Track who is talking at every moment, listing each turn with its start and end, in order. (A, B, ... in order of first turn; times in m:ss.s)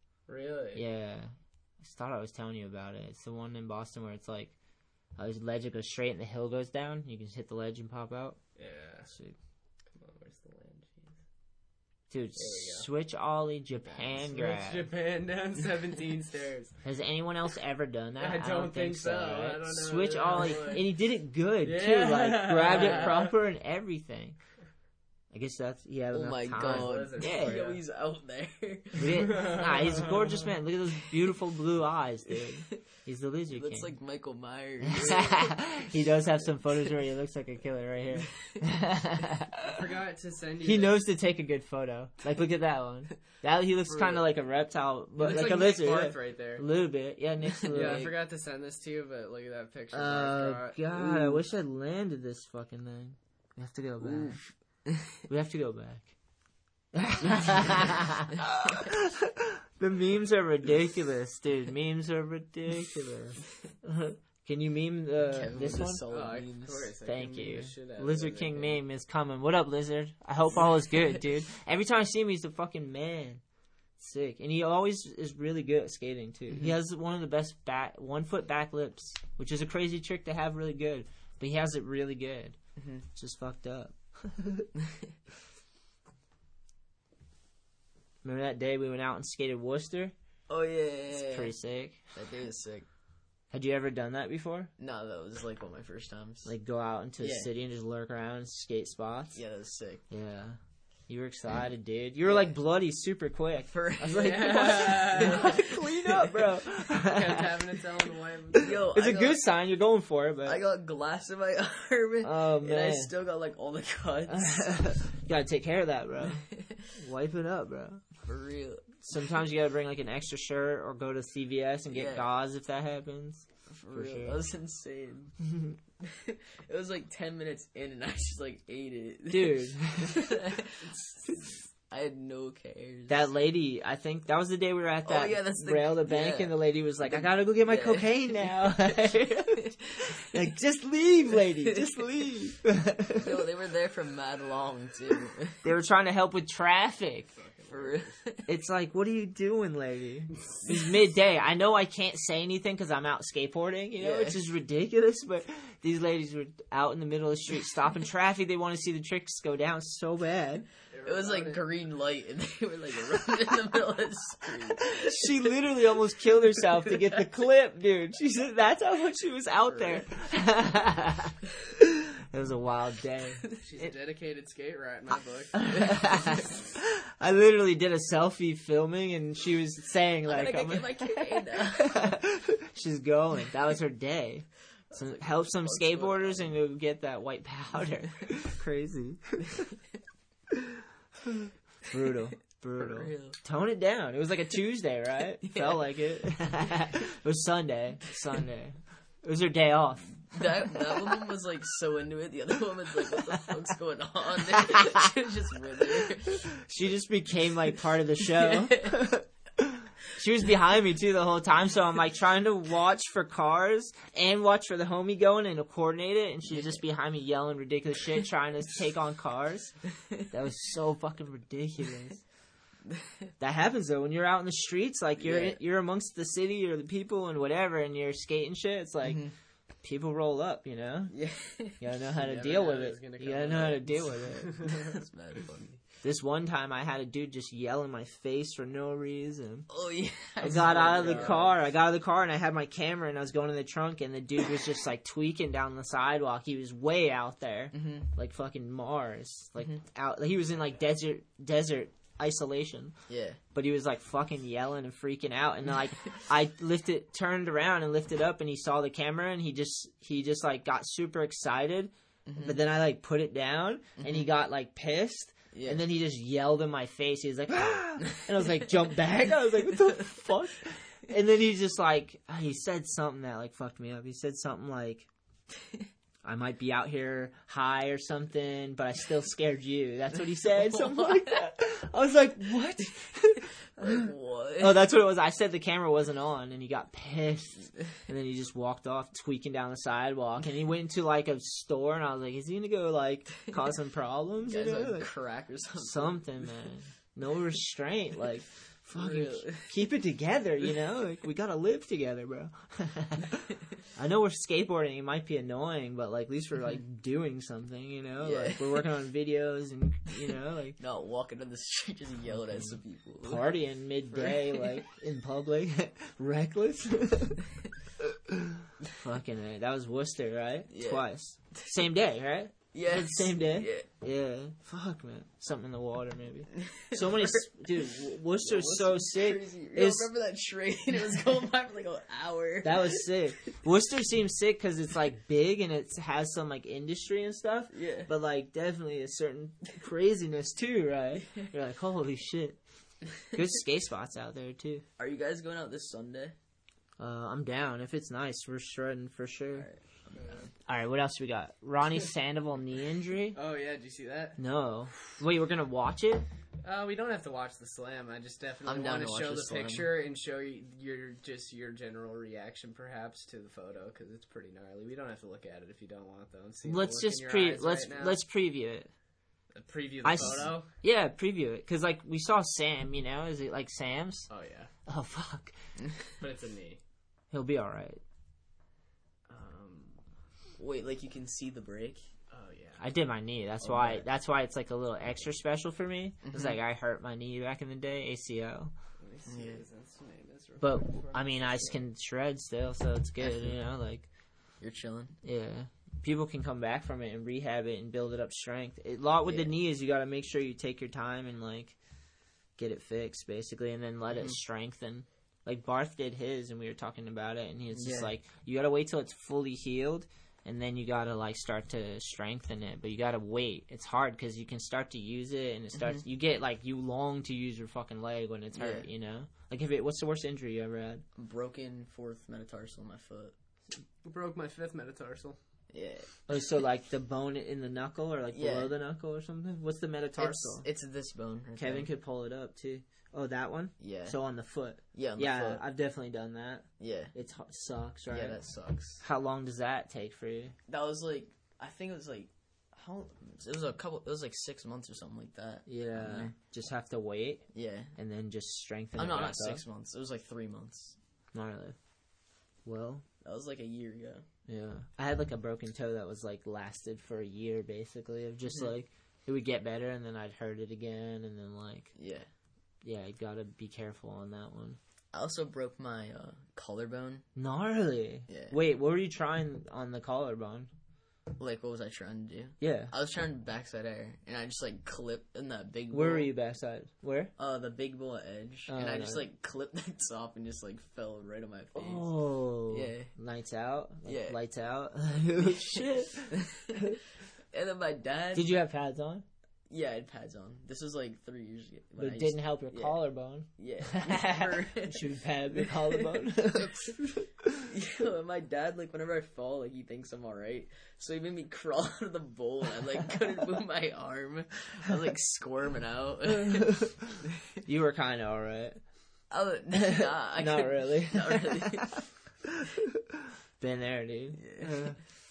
0:00.3-0:00.8 A
0:00.8-0:04.6 B
0:05.2-0:08.4 B
0:08.6-0:09.1 A
0:09.1-0:09.4 B
0:09.9-0:11.2 A
0:12.1-0:14.9 B
0:12.4-0:12.9 A
0:13.8-0:16.8 A
0:16.8-0:24.4 B
0:18.2-0:20.9 A
0:21.6-0:23.3 A
0:22.7-0:23.1 C
0:25.3-0:27.6 B
0:26.1-0:29.3 C
0:26.6-0:27.8 A
0:29.0-0:33.9 B
0:29.2-0:30.4 A
0:33.5-0:36.5 C
0:34.8-0:39.8 B
0:39.6-0:41.0 A
0:40.6-0:48.1 B
0:43.9-0:44.2 A
0:45.2-0:46.6 A
0:47.6-0:48.1 C
0:47.7-0:50.8 A
0:49.9-0:54.4 B
0:50.9-0:51.4 C
0:54.0-0:55.2 C
0:55.3-0:56.1 B
0:56.9-1:06.0 B
1:05.2-1:06.9 C
1:06.1-1:08.8 A
1:07.0-1:13.4 B
1:14.0-1:22.6 B
1:22.8-1:23.1 C
1:23.2-1:24.7 B
1:28.2-1:30.1 B
1:30.5-1:31.5 C
1:31.1-1:32.0 B
1:32.1-1:32.9 C
1:33.5-1:34.7 B
1:34.8-1:36.6 C
1:36.4-1:39.4 B
1:37.2-1:37.5 C
1:39.4-1:40.0 C
1:40.1-1:47.6 B
1:42.2-1:42.5 C
1:43.7-1:46.4 C
1:44.0-1:45.6 A
1:47.0-1:48.8 A
1:48.6-1:50.6 B
1:48.6-1:49.4 C
1:50.4-1:54.8 C
1:52.2-1:53.1 B
1:54.3-1:58.0 B
1:56.5-1:56.9 C
1:58.2-1:59.0 C
1:59.0-2:04.4 B
2:01.9-2:02.3 C
2:03.7-2:05.4 C
2:05.5-2:05.8 B
2:06.0-2:13.3 C
2:09.3-2:10.4 B
2:13.1-2:23.4 B
2:15.0-2:20.2 C
2:21.6-2:22.1 C
2:23.2-2:25.6 C
2:25.6-2:27.3 B
2:27.4-2:28.1 A
2:27.7-2:28.5 C
2:28.5-2:40.7 B
2:34.0-2:34.4 C
2:40.9-2:41.6 A
2:41.0-2:45.4 C
2:44.8-2:53.9 B
2:49.7-2:50.0 C
2:53.6-2:55.6 A
2:55.6-3:09.7 B
3:00.3-3:02.2 C
3:04.9-3:06.5 C
3:11.2-3:21.2 B
3:12.8-3:13.4 C
3:15.4-3:15.8 C
3:20.3-3:26.5 C
3:24.7-3:25.0 B
3:26.5-3:39.8 B
3:28.4-3:28.9 C
3:40.3-3:42.2 B
3:42.9-3:43.3 C
3:43.4-3:49.2 B
3:45.2-3:45.6 C
3:49.0-3:49.3 C
3:49.8-3:51.2 B
3:51.1-3:51.8 C
3:51.8-3:54.6 B
3:52.2-3:54.9 A
3:54.6-3:55.8 C
3:56.0-3:59.7 B
3:59.7-4:01.5 C
4:00.4-4:13.0 B
4:00.4-4:01.6 A
4:07.7-4:08.1 C
4:13.1-4:13.4 C
4:13.5-4:35.1 B
4:22.3-4:22.6 C
4:24.0-4:24.3 C
4:25.5-4:25.8 C
4:36.2-4:44.1 B
4:40.8-4:41.4 C
4:43.8-4:44.8 C
4:44.6-4:55.1 B
4:54.4-4:56.4 C
4:55.8-5:10.8 B
4:58.9-4:59.8 C
5:08.2-5:08.8 C
5:10.8-5:13.6 C
5:12.5-5:17.4 B
5:14.1-5:14.8 C
5:18.0-5:30.1 B
5:20.7-5:21.8 C
5:22.7-5:23.9 C
5:26.6-5:33.1 C
5:32.6-5:42.6 B
5:37.7-5:38.1 C
5:43.3-5:44.8 B
5:45.0-5:46.4 C
5:47.0-5:49.7 B
5:49.6-5:50.5 C
5:50.2-5:50.5 A
5:50.7-5:53.4 B
5:53.4-5:54.4 A
5:54.4-5:56.3 B
5:56.6-6:08.2 A
5:58.6-5:59.9 C
6:06.6-6:08.9 B
6:09.5-6:10.7 A
6:10.0-6:14.3 B
6:14.3-6:14.7 A
6:14.9-6:15.6 B
6:16.2-6:16.8 A
6:17.3-6:18.0 B
6:19.3-6:20.0 A
6:20.6-6:22.0 C
6:22.3-6:22.8 A
6:22.8-6:28.7 B
6:23.6-6:24.1 C
6:26.2-6:26.6 C
6:29.0-6:31.8 A
6:29.3-6:29.6 C
6:30.6-6:34.1 B
6:33.2-6:33.6 C
6:34.6-6:35.2 C
6:35.2-6:41.8 B
6:39.2-6:39.5 C
6:42.6-7:01.0 B
6:44.1-6:44.4 C
6:47.7-6:48.1 C
6:55.7-6:56.0 C
6:58.5-6:58.9 C
7:01.2-7:03.3 C
7:04.0-7:05.4 A
7:05.7-7:06.2 C
7:06.3-7:10.6 B
7:08.3-7:08.7 C
7:10.2-7:11.9 C
7:11.6-7:18.4 B
7:13.8-7:14.2 C
7:14.9-7:15.6 C
7:16.8-7:17.1 C
7:18.1-7:19.0 C
7:19.0-7:20.6 B
7:20.7-7:26.4 C
7:25.7-7:29.6 B
7:27.5-7:27.9 C
7:29.0-7:31.0 C
7:31.3-7:31.8 B
7:32.6-7:33.0 B
7:33.2-7:34.2 C
7:34.5-7:41.9 B
7:42.0-7:42.3 C
7:42.8-7:44.8 B
7:45.1-7:47.3 C
7:47.4-7:50.7 B
7:48.3-7:48.6 C
7:51.4-7:56.3 C
7:52.6-7:52.9 B
7:55.9-7:57.3 B
7:57.4-8:03.1 C
7:58.7-7:59.3 B
8:01.7-8:07.0 B
8:04.0-8:04.4 C
8:05.4-8:07.0 C
8:07.5-8:08.6 C
8:08.3-8:09.3 B
8:09.7-8:13.0 C
8:12.0-8:17.7 B
8:13.6-8:17.1 C
8:17.6-8:26.8 C
8:26.4-8:27.0 B
8:27.6-8:28.8 B
8:29.3-8:32.0 C
8:29.7-8:35.0 B
8:34.3-8:34.9 C